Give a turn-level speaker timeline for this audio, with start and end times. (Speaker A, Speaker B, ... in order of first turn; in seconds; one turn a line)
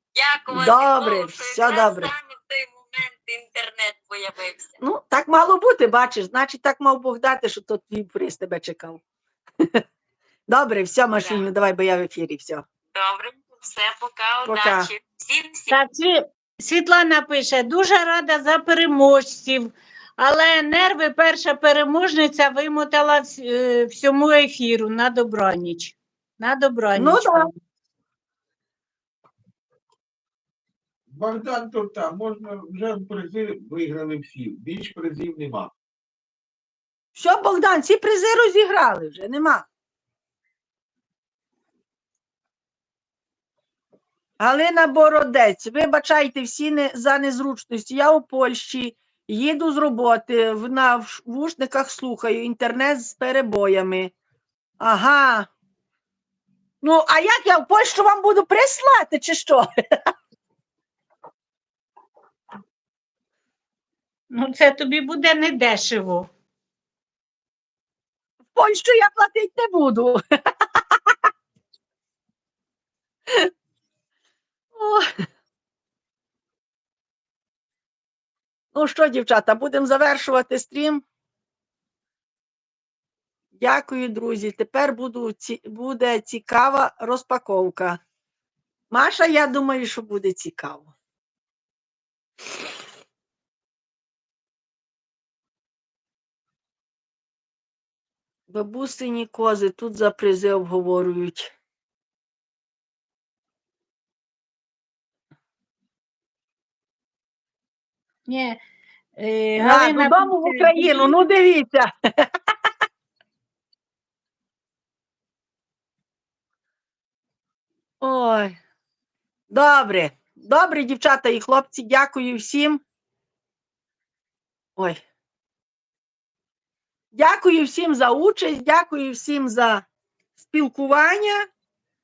Speaker A: 0.1-4.7
Speaker B: 0.5-2.1
Speaker B: 4.8-9.0
Speaker B: 10.5-12.6
Speaker A: 11.2-11.5
Speaker A: 12.9-15.8
Speaker B: 14.5-14.9
Speaker C: 15.7-27.5
Speaker B: 26.9-27.5
Speaker D: 31.1-35.7
Speaker B: 37.1-39.7
Speaker B: 44.4-54.1
Speaker B: 54.8-55.5
Speaker B: 56.8-59.7
Speaker C: 64.3-66.3
Speaker B: 68.5-70.2
Speaker B: 70.7-71.1
Speaker B: 74.7-75.1
Speaker B: 78.7-81.0
Speaker B: 83.6-88.0
Speaker B: 88.9-90.9
Speaker B: 98.5-101.5
Speaker C: 108.3-108.6
Speaker C: 109.2-111.1
Speaker B: 109.6-112.3
Speaker B: 118.0-118.5
Speaker B: 119.5-122.8
Speaker B: 124.8-125.0
Speaker B: 127.1-129.8
Speaker B: 130.4-131.5